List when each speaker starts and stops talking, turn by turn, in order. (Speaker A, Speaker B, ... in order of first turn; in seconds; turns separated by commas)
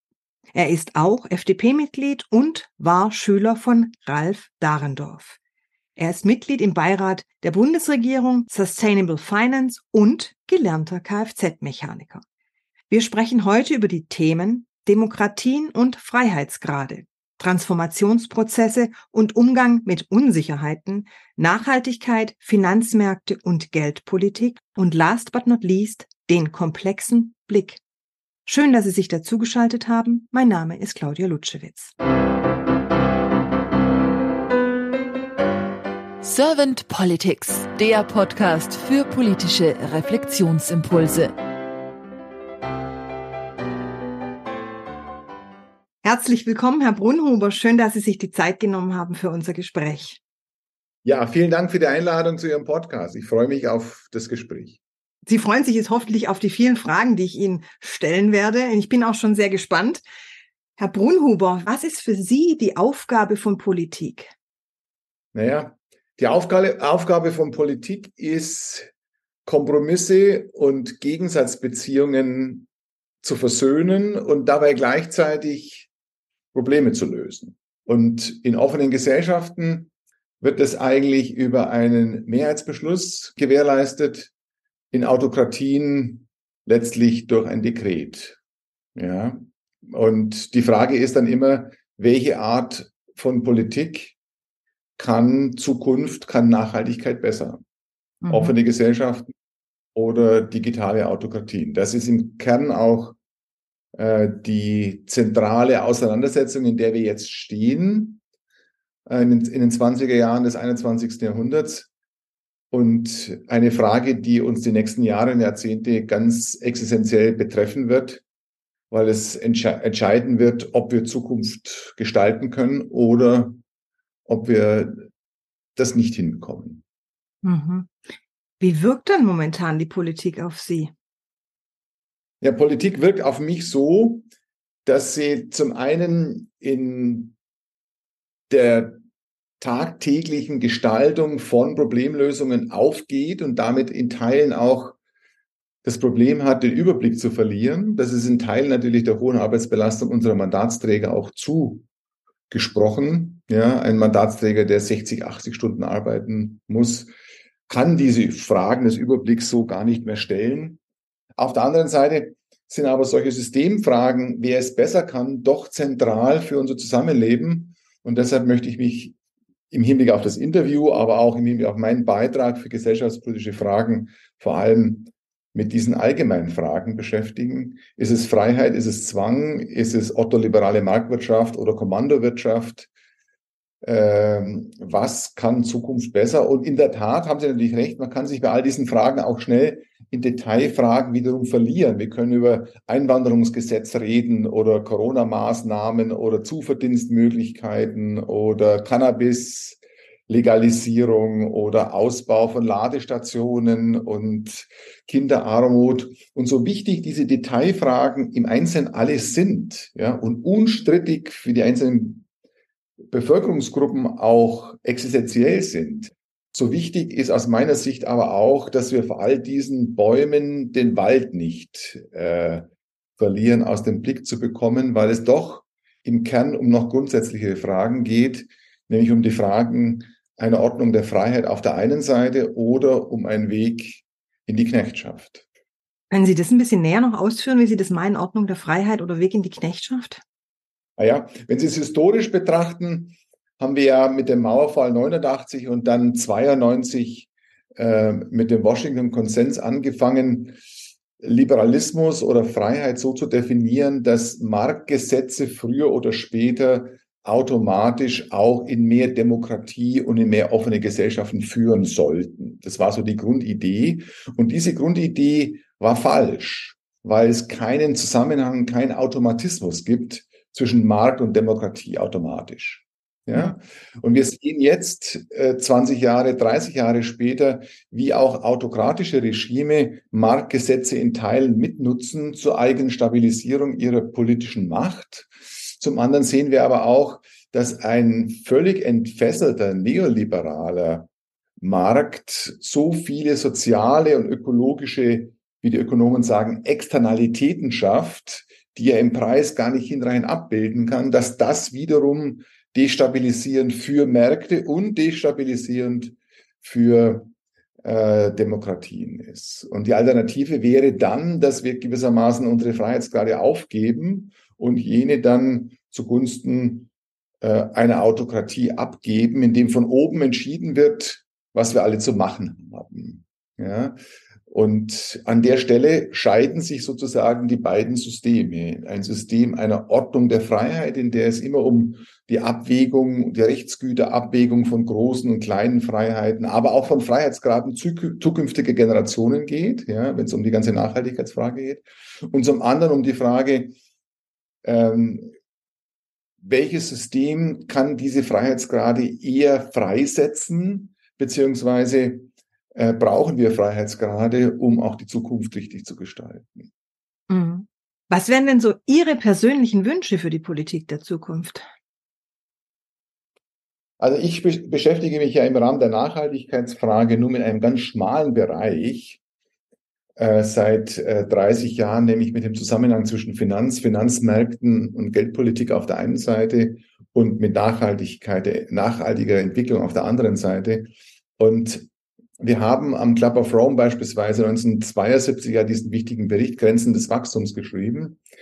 Speaker A: 0.5-5.4, Speaker A: 6.0-12.2, Speaker A: 12.9-27.8, Speaker A: 28.4-31.9, Speaker B: 36.2-41.3, Speaker A: 46.0-50.2, Speaker C: 51.0-54.8, Speaker A: 55.2-60.0, Speaker A: 60.8-64.3, Speaker C: 65.3-68.9, Speaker C: 69.4-72.7, Speaker C: 73.2-75.9, Speaker C: 76.5-84.3, Speaker C: 84.9-88.4, Speaker C: 89.0-94.2, Speaker C: 95.0-97.6, Speaker A: 98.2-98.5, Speaker C: 98.3-99.3, Speaker C: 99.9-103.2, Speaker C: 103.9-108.2, Speaker C: 109.1-111.9, Speaker C: 112.7-118.2, Speaker C: 118.9-123.6, Speaker C: 124.2-125.1, Speaker C: 125.8-126.8, Speaker A: 127.4-127.9, Speaker A: 128.6-130.9, Speaker C: 132.4-134.3, Speaker C: 134.8-137.3, Speaker C: 138.5-139.0, Speaker C: 139.6-145.0, Speaker C: 145.8-151.8, Speaker C: 152.5-157.1, Speaker C: 157.7-160.8, Speaker C: 161.4-169.2, Speaker C: 169.7-182.9, Speaker C: 183.8-212.2, Speaker C: 213.1-222.6, Speaker C: 223.2-235.4, Speaker A: 236.1-240.2, Speaker C: 241.0-250.6, Speaker C: 251.2-307.3, Speaker C: 307.8-316.9, Speaker C: 317.4-343.8, Speaker C: 344.6-345.3, Speaker C: 346.4-356.7, Speaker A: 357.3-361.7, Speaker C: 364.0-369.2, Speaker C: 370.2-381.9, Speaker C: 382.4-388.2